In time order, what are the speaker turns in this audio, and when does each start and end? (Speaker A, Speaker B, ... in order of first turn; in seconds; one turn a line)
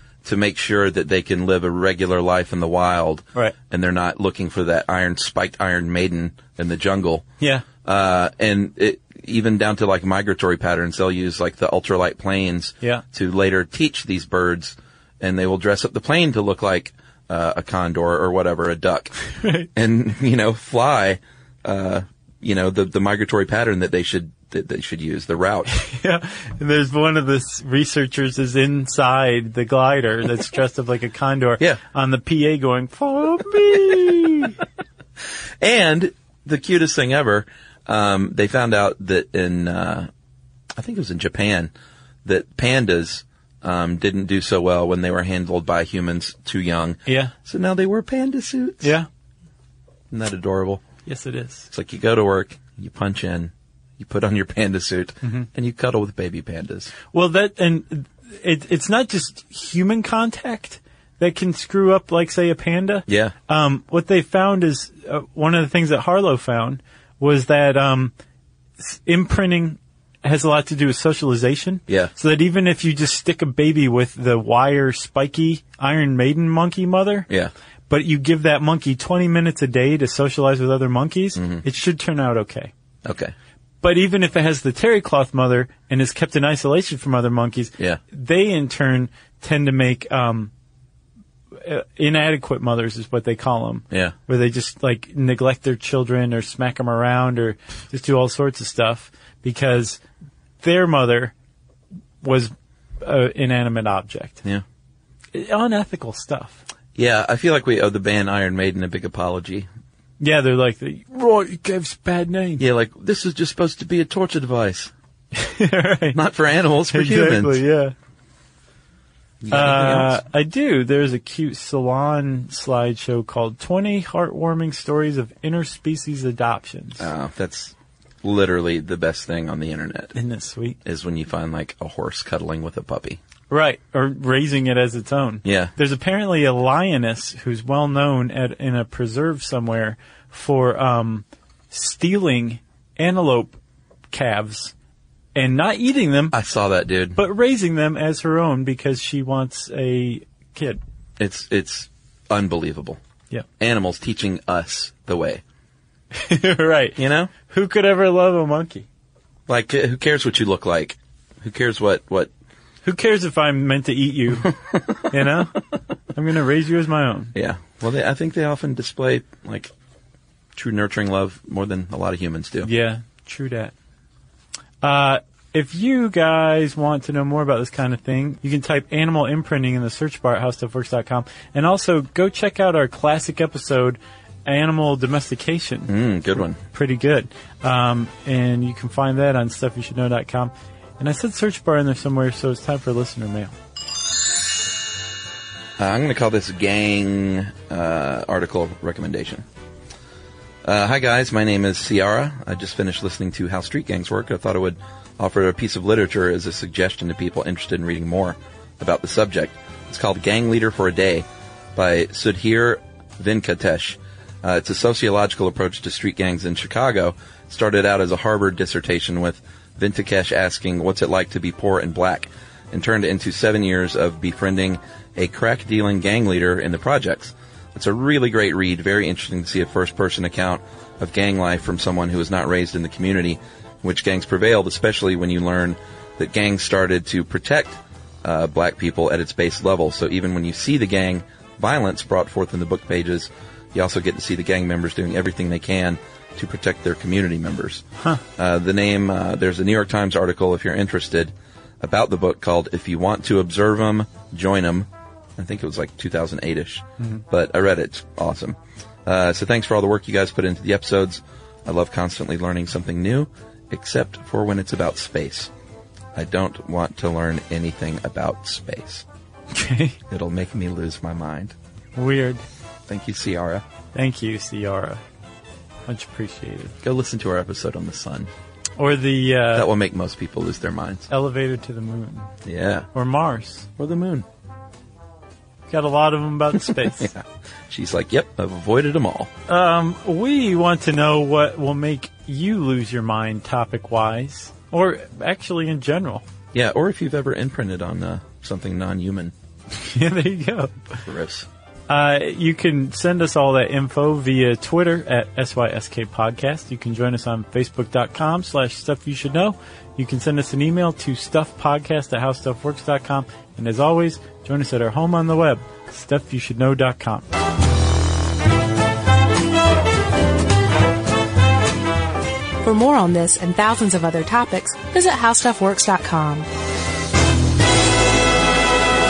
Speaker A: 0.2-7.2
Speaker B: 7.4-7.7
Speaker A: 7.8-19.1
Speaker B: 19.3-19.7
Speaker A: 19.7-25.7
Speaker B: 25.7-34.6
Speaker A: 35.6-40.1
Speaker A: 40.7-41.7
Speaker A: 42.2-49.0
Speaker B: 47.1-47.3
Speaker B: 48.8-49.1
Speaker A: 50.1-50.8
Speaker B: 51.0-51.7
Speaker A: 51.7-56.9
Speaker B: 57.1-68.1
Speaker A: 63.1-63.3
Speaker B: 68.8-77.3
Speaker A: 71.9-72.1
Speaker B: 77.9-82.7
Speaker A: 81.3-81.6
Speaker A: 83.0-83.3
Speaker B: 83.8-90.5
Speaker B: 91.6-100.0
Speaker B: 100.6-101.3
Speaker B: 102.2-104.4
Speaker B: 105.3-106.6
Speaker A: 106.9-109.7
Speaker B: 110.2-112.6
Speaker A: 112.6-114.9
Speaker B: 115.3-116.2
Speaker A: 116.1-117.6
Speaker B: 116.9-117.9
Speaker A: 119.4-120.2
Speaker B: 119.5-127.1
Speaker A: 127.0-130.2
Speaker B: 130.1-130.8
Speaker A: 130.8-133.2
Speaker B: 133.5-143.6
Speaker A: 135.4-135.7
Speaker B: 144.1-144.7
Speaker B: 145.3-146.3
Speaker A: 146.3-147.2
Speaker B: 147.1-150.8
Speaker A: 151.2-153.0
Speaker A: 153.6-155.4
Speaker B: 156.1-158.8
Speaker A: 157.0-157.3
Speaker A: 159.5-162.3
Speaker B: 162.8-165.6
Speaker B: 166.1-167.3
Speaker A: 167.3-169.7
Speaker A: 170.5-172.7
Speaker B: 172.6-173.7
Speaker B: 174.8-185.9
Speaker A: 185.9-186.6
Speaker B: 186.6-193.5
Speaker A: 195.8-199.4
Speaker A: 200.6-265.5
Speaker A: 266.1-269.0
Speaker B: 269.5-270.0
Speaker A: 270.1-271.5
Speaker B: 271.9-272.4
Speaker A: 272.9-273.6
Speaker B: 273.9-275.0
Speaker B: 275.9-276.7
Speaker A: 276.8-278.3
Speaker B: 278.8-279.7
Speaker A: 279.5-281.1
Speaker B: 281.1-282.3
Speaker A: 282.4-282.9
Speaker B: 282.9-283.7
Speaker A: 283.8-284.2
Speaker B: 285.7-287.1
Speaker A: 286.5-289.3
Speaker B: 289.5-296.2
Speaker A: 296.5-299.3
Speaker B: 299.7-300.8
Speaker A: 300.9-301.5
Speaker B: 301.9-317.3
Speaker C: 322.6-326.5